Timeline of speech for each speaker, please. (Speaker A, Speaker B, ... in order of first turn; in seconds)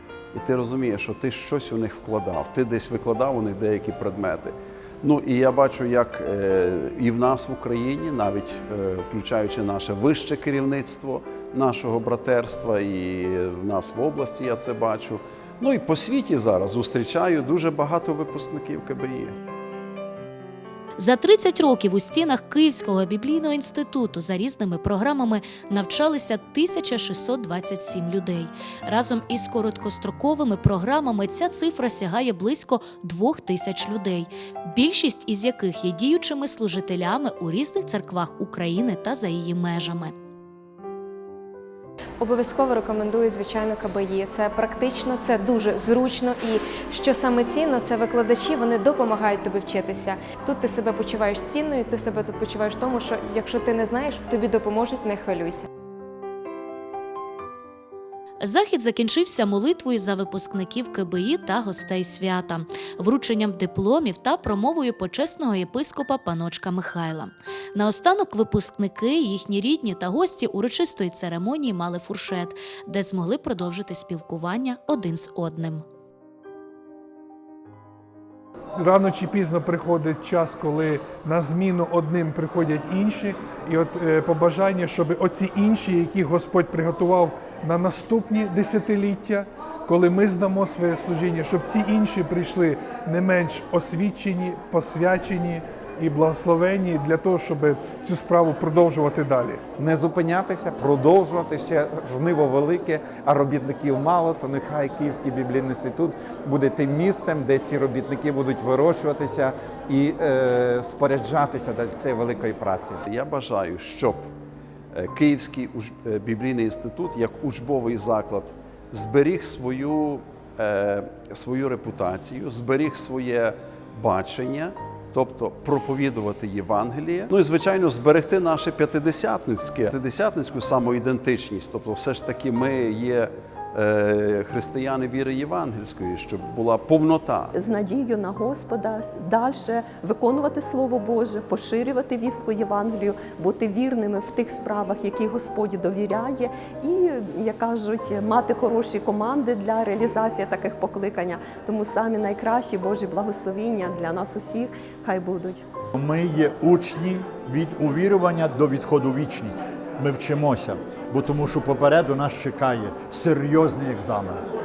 Speaker A: 0.3-19.3, 113.0-114.2, 114.9-137.5
Speaker B: 21.0-40.1, 58.4-75.8
Speaker C: 42.2-55.7
Speaker D: 78.8-99.6
Speaker E: 99.8-113.0
Speaker F: 137.5-155.6
Speaker G: 155.9-164.4